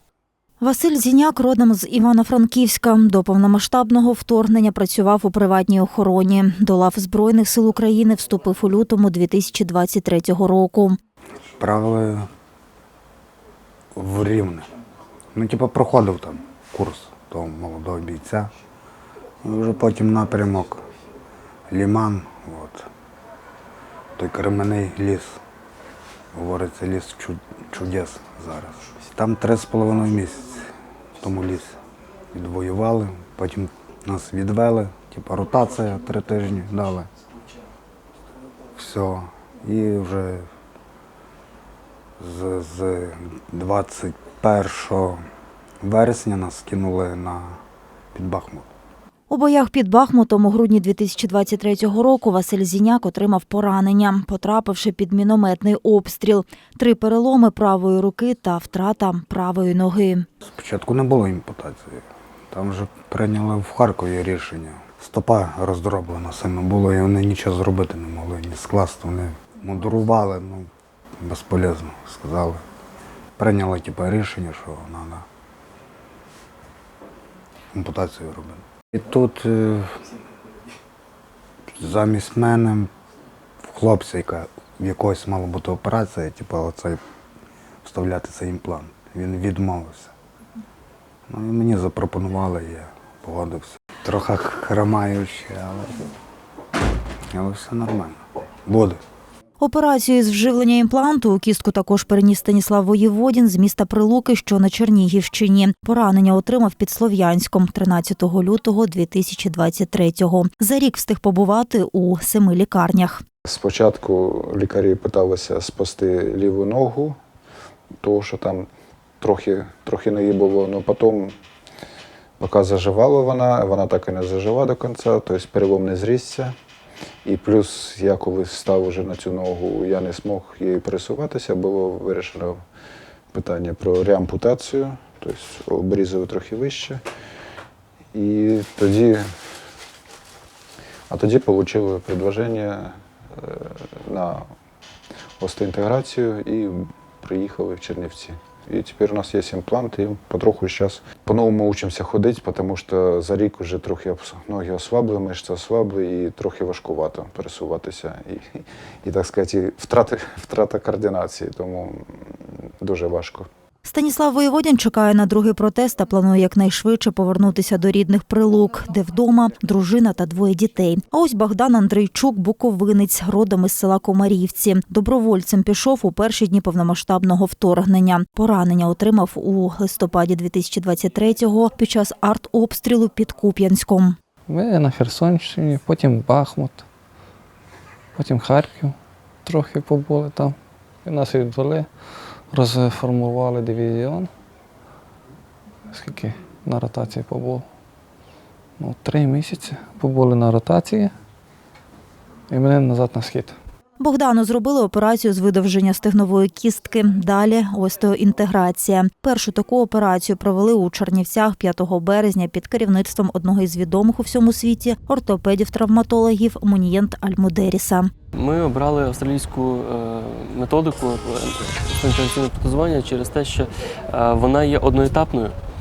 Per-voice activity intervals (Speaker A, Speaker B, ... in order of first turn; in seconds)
Speaker A: 0.6-11.0, 49.3-60.3, 99.6-113.2, 163.8-184.2, 204.0-218.1
Speaker B: 11.6-12.3, 13.9-14.7, 15.3-18.5, 19.4-20.8, 21.7-22.9, 24.2-25.4, 26.3-30.6, 31.2-31.7, 32.3-37.1, 38.8-40.5, 42.2-45.2, 45.8-47.6, 48.1-48.7, 60.4-72.6, 73.4-75.2, 77.7-80.0, 81.8-82.9, 83.6-87.0, 87.8-90.1, 91.3-96.1, 97.3-99.0
Speaker C: 113.4-117.2, 118.0-118.7, 119.2-121.3, 122.4-126.5, 127.2-132.6, 133.3-137.0, 138.1-139.3, 141.1-144.4, 145.4-163.5
Speaker D: 184.5-186.8, 188.2-191.9, 192.5-194.3, 195.9-197.6, 198.8-201.1, 202.5-203.5
Speaker E: 218.3-225.6